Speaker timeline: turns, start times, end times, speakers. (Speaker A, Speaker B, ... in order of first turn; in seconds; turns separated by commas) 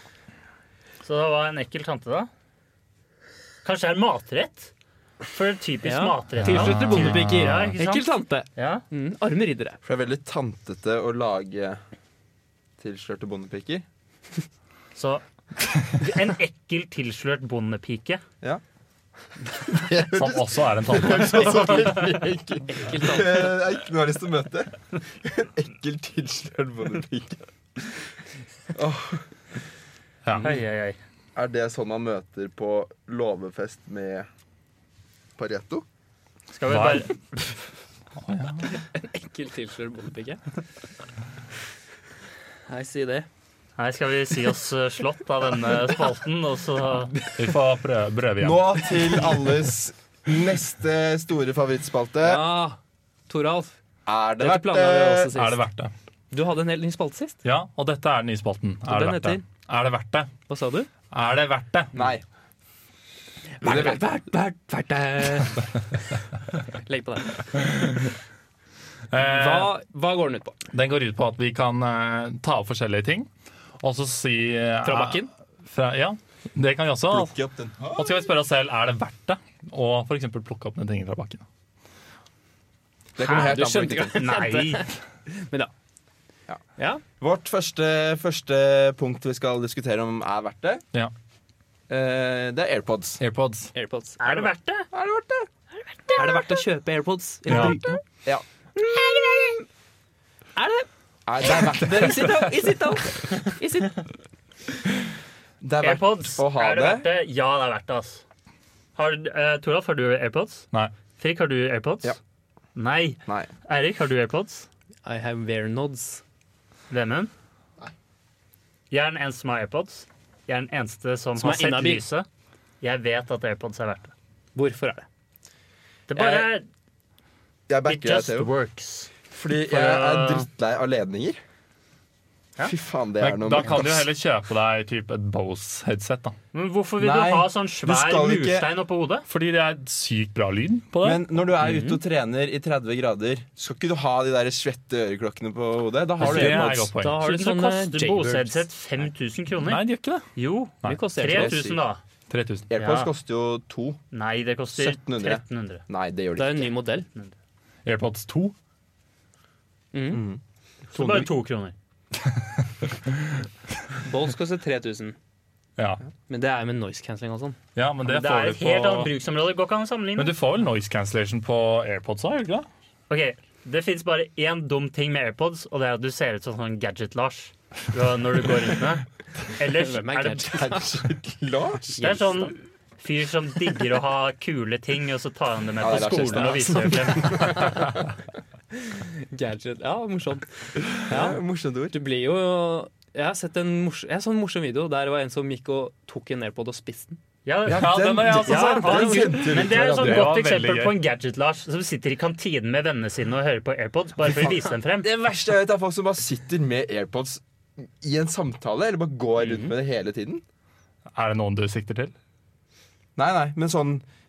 Speaker A: 1.0-2.3, Speaker A: 3.6-4.7, Speaker A: 5.2-8.8, Speaker B: 5.8-9.8, Speaker C: 6.4-7.8, Speaker D: 9.8-11.8, Speaker D: 12.8-13.8, Speaker A: 14.9-15.2, Speaker A: 15.9-18.2, Speaker D: 19.6-28.0, Speaker C: 20.1-22.0, Speaker A: 21.1-22.0, Speaker B: 22.7-23.5, Speaker D: 28.7-29.2, Speaker C: 30.2-30.5, Speaker A: 30.4-31.0, Speaker D: 31.3-34.3, Speaker D: 35.4-35.8, Speaker A: 36.5-37.6, Speaker C: 36.7-37.1, Speaker C: 38.2-38.7, Speaker B: 38.7-40.4, Speaker B: 42.7-43.3, Speaker A: 43.8-47.2, Speaker C: 47.3-48.7, Speaker D: 48.4-52.4, Speaker B: 52.2-53.8, Speaker D: 54.0-55.3, Speaker B: 54.4-55.6, Speaker C: 55.3-55.9, Speaker B: 56.3-57.4, Speaker C: 57.4-60.3, Speaker B: 58.9-59.4, Speaker B: 60.5-60.9, Speaker C: 61.1-61.9, Speaker D: 61.9-62.2, Speaker B: 63.6-65.7, Speaker D: 63.6-64.0, Speaker B: 66.8-67.5, Speaker C: 69.1-69.7, Speaker B: 69.2-70.6, Speaker C: 70.7-73.3, Speaker C: 73.8-77.3, Speaker B: 74.8-75.3, Speaker D: 77.1-78.2, Speaker C: 77.9-81.4, Speaker D: 83.2-84.3, Speaker B: 83.2-85.7, Speaker A: 83.2-83.6, Speaker A: 84.1-84.9, Speaker B: 86.8-87.0, Speaker D: 87.2-90.8, Speaker D: 91.9-93.2, Speaker C: 93.2-93.7, Speaker B: 93.7-94.5, Speaker A: 94.2-94.9, Speaker D: 94.9-95.5, Speaker B: 96.1-98.0, Speaker C: 97.5-97.8, Speaker B: 98.8-99.6, Speaker B: 100.5-100.9, Speaker D: 101.3-102.5, Speaker B: 101.4-104.0, Speaker D: 105.6-107.1, Speaker A: 105.8-108.2, Speaker A: 108.9-110.7, Speaker A: 111.2-112.2, Speaker A: 112.7-114.7, Speaker B: 115.0-116.2, Speaker A: 116.9-117.3, Speaker A: 118.9-122.3, Speaker B: 121.4-122.0, Speaker A: 122.8-124.1, Speaker B: 124.5-125.0, Speaker A: 126.1-126.7, Speaker D: 126.1-126.5, Speaker D: 127.7-128.5, Speaker A: 127.8-129.1, Speaker D: 129.3-131.4, Speaker A: 129.7-130.5, Speaker D: 132.6-134.1, Speaker C: 133.2-136.3, Speaker A: 136.5-139.2, Speaker D: 137.0-138.7, Speaker C: 139.3-141.2, Speaker D: 141.0-146.9, Speaker B: 141.6-142.0, Speaker C: 146.2-147.2, Speaker B: 146.2-148.6, Speaker A: 147.2-149.8, Speaker C: 149.6-150.3, Speaker A: 150.3-152.0, Speaker B: 150.8-151.7, Speaker D: 151.2-151.8, Speaker C: 152.3-152.7, Speaker D: 152.7-154.0, Speaker A: 152.8-153.1, Speaker A: 154.1-155.8, Speaker D: 154.7-156.7, Speaker B: 156.3-157.1, Speaker C: 157.8-158.5, Speaker B: 159.9-160.2, Speaker D: 160.1-160.4, Speaker D: 160.9-161.3, Speaker A: 160.9-161.7, Speaker B: 164.0-165.2, Speaker C: 165.8-166.0, Speaker B: 166.3-167.6, Speaker C: 167.8-169.1, Speaker A: 168.0-170.3, Speaker C: 170.2-172.7, Speaker A: 173.1-180.7, Speaker B: 179.7-180.9, Speaker D: 180.5-182.2, Speaker A: 181.9-187.8, Speaker B: 182.0-182.4, Speaker D: 185.8-187.8, Speaker B: 186.0-186.9, Speaker B: 188.8-191.4, Speaker D: 191.1-191.9, Speaker B: 191.9-197.2, Speaker A: 197.4-205.1, Speaker D: 197.7-200.3, Speaker C: 197.7-201.0, Speaker D: 204.3-210.4, Speaker B: 209.4-209.7, Speaker C: 211.1-212.1, Speaker D: 213.2-214.0